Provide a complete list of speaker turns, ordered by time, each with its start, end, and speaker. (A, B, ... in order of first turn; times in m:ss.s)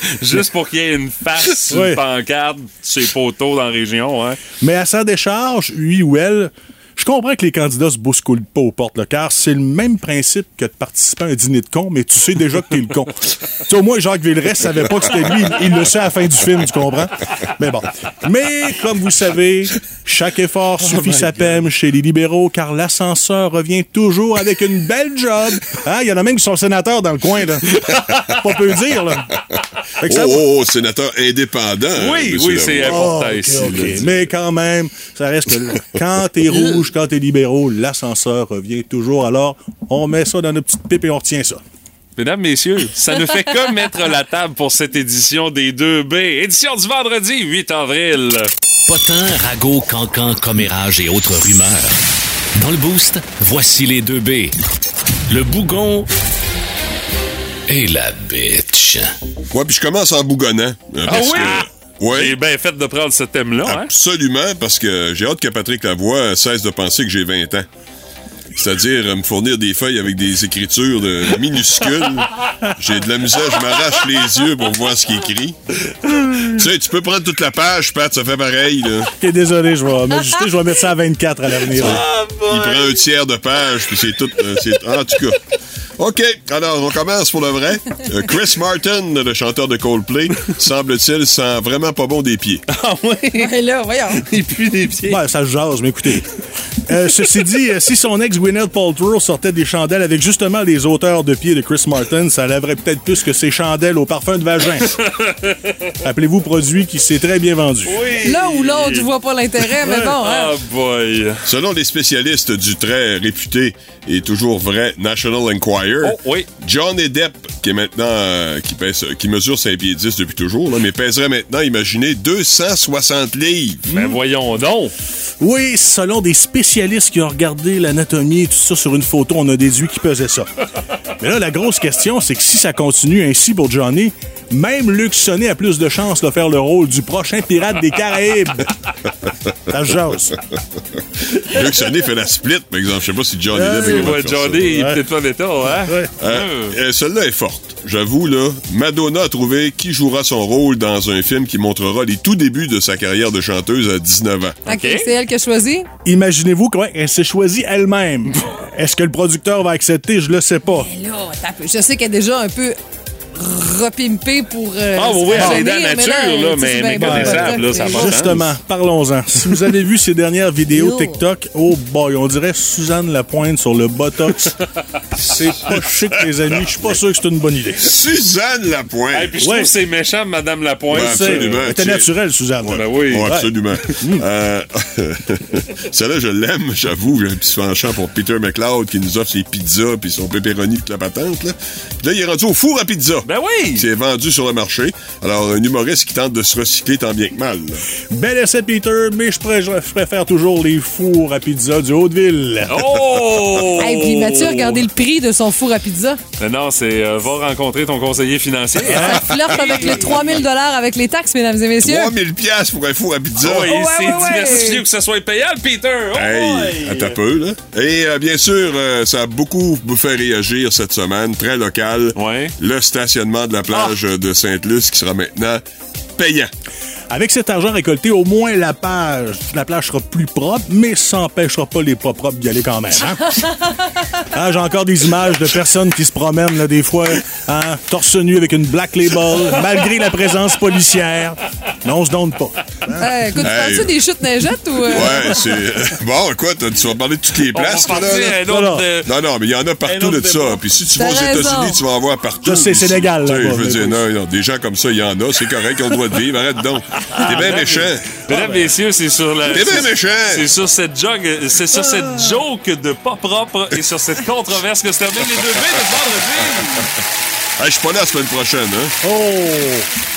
0:00.1-0:04.4 A
0:01.7-0:02.0 B
0:04.6-0:27.7 B
0:20.9-0:21.3 A
0:28.3-0:29.3 B
0:30.0-0:30.4 B
0:30.0-0:34.1 C
0:31.9-0:34.0 A
0:32.8-0:41.6 B
0:42.2-0:48.5 A
0:48.9-0:52.0 D
0:52.5-0:54.6 D
0:55.3-0:56.1 D
0:57.7-0:59.1 D
0:59.5-1:02.3 C
1:01.0-1:03.9 A
1:03.6-1:07.7 C
1:08.6-1:15.6 C
1:16.4-1:19.1 C
1:19.2-1:22.0 B
1:21.7-1:25.4 C
1:21.7-1:23.0 A
1:26.0-1:32.6 C
1:32.7-1:33.5 A
1:33.4-1:34.2 E
1:34.2-1:35.2 A
1:35.1-1:36.2 B
1:36.9-1:45.0 B
1:44.9-1:45.9 A
1:46.0-1:48.0 B
1:47.8-1:49.1 A
1:48.2-1:50.5 E
1:50.2-1:51.4 A
1:51.4-2:04.0 C
1:56.0-1:56.5 A
2:03.9-2:04.9 A
2:05.4-2:10.5 B
2:11.2-2:18.7 B
2:19.7-2:20.3 B
2:21.4-2:24.7 C
2:23.5-2:25.0 B
2:23.7-2:26.8 A
2:25.8-2:26.1 B
2:26.2-2:34.6 C
2:34.7-2:35.1 A
2:34.7-2:35.9 E
2:36.0-2:40.9 B
2:40.7-2:42.8 E
2:43.4-2:48.2 E
2:45.0-2:48.4 A
2:45.3-2:45.6 B
2:46.9-2:54.5 B
2:50.7-2:51.2 E
2:55.1-2:57.9 B
2:57.8-2:59.4 C
2:59.1-3:01.7 A
2:59.4-2:59.7 B
3:00.9-3:04.2 B
3:00.9-3:17.8 C
3:02.7-3:03.3 A
3:13.2-3:13.9 A
3:18.1-3:22.9 B
3:22.7-3:24.8 A
3:23.8-3:26.2 E
3:26.4-3:30.4 A
3:28.8-3:29.2 B
3:29.0-3:32.1 E
3:29.0-3:30.2 C
3:31.8-3:33.7 C
3:33.4-3:37.2 A
3:33.6-3:34.8 E
3:36.1-3:45.6 C
3:42.2-3:42.5 A
3:43.7-3:44.0 A
3:46.2-3:46.5 C
3:47.1-3:53.6 B
3:54.2-4:03.3 B
4:03.0-4:05.4 E
4:03.4-4:03.9 C
4:04.9-4:08.4 C
4:07.5-4:09.1 A
4:08.4-4:08.8 B
4:09.0-4:18.2 C
4:09.8-4:10.6 A
4:11.0-4:11.8 E
4:12.4-4:14.0 B
4:17.1-4:26.8 A
4:18.3-4:18.7 B
4:19.5-4:20.5 C
4:21.7-4:22.4 B
4:27.6-4:28.9 C
4:29.0-4:29.9 B